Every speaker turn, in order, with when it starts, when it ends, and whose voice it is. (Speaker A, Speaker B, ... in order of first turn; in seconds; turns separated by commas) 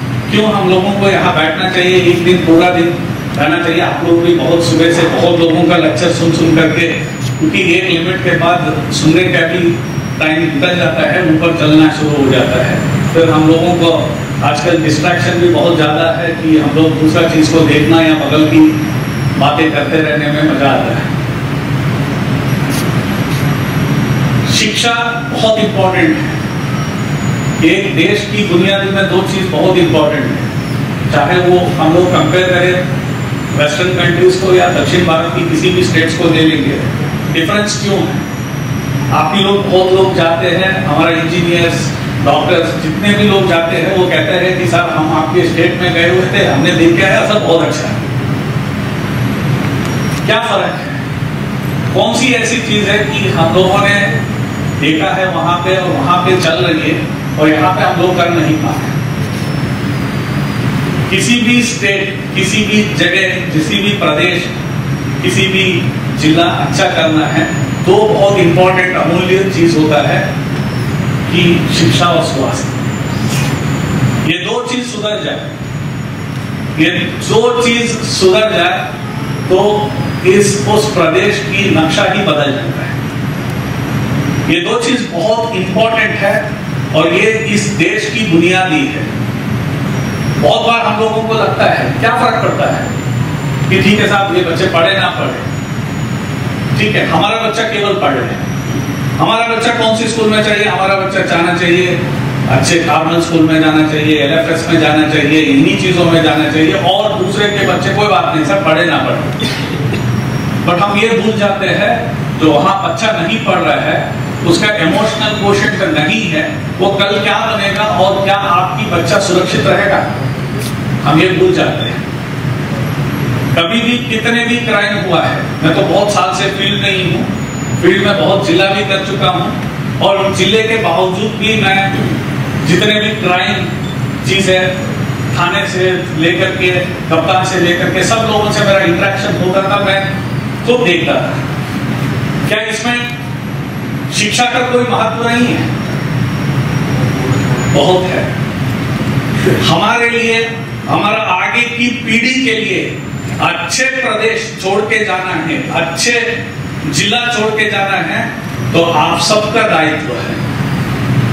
Speaker A: 0.3-18.8, Speaker A: 19.4-21.1, Speaker A: 24.5-26.4, Speaker A: 27.6-30.5, Speaker A: 31.1-32.8, Speaker A: 33.5-38.3, Speaker A: 39.1-48.0, Speaker A: 50.2-51.0, Speaker A: 51.9-54.2, Speaker A: 54.8-59.0, Speaker A: 61.1-64.5, Speaker A: 65.2-70.3, Speaker A: 71.3-72.8, Speaker A: 74.2-75.5, Speaker A: 76.8-78.9, Speaker A: 79.5-83.0, Speaker A: 84.5-89.1, Speaker A: 90.4-92.9, Speaker A: 93.7-95.4, Speaker A: 96.7-98.4, Speaker A: 99.2-109.4, Speaker A: 110.6-120.1, Speaker A: 121.0-122.0, Speaker A: 123.5-132.0, Speaker A: 132.6-134.7, Speaker A: 135.3-140.1, Speaker A: 140.6-141.4, Speaker A: 142.4-143.1, Speaker A: 144.1-145.7, Speaker A: 147.7-148.3, Speaker A: 149.6-160.4